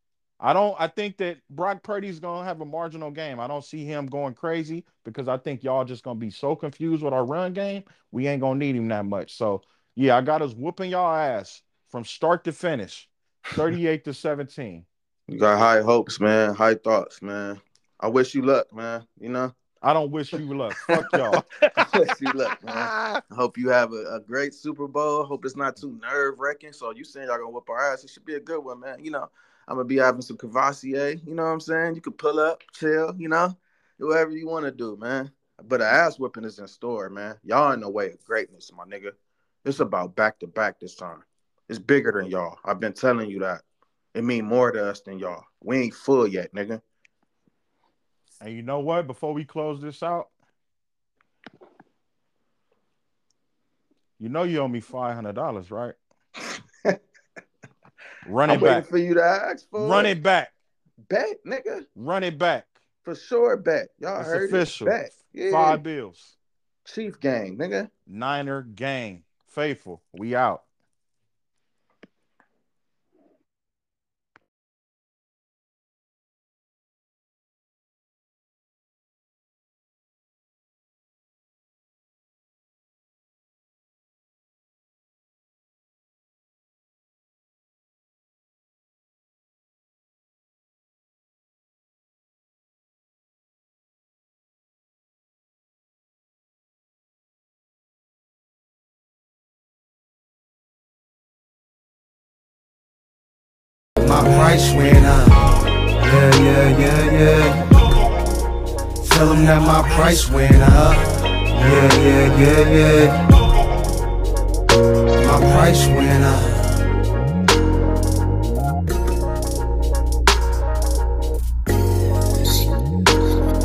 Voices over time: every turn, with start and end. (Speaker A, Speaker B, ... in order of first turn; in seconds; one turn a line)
Speaker A: 0.4-14.9
Speaker B: 15.3-19.5
Speaker A: 19.8-21.9
Speaker B: 21.8-43.6
Speaker A: 22.6-23.2
Speaker B: 44.1-46.8
Speaker A: 48.4-50.3
Speaker A: 54.2-56.0
Speaker A: 58.2-58.9
Speaker B: 58.5-60.1
Speaker A: 59.8-60.5
Speaker B: 61.1-61.9
Speaker A: 62.0-62.7
Speaker B: 63.0-65.8
Speaker A: 64.2-66.3
Speaker B: 66.8-67.9
Speaker A: 68.1-70.7
Speaker C: 104.0-107.8
Speaker C: 109.0-113.2
Speaker C: 115.2-116.8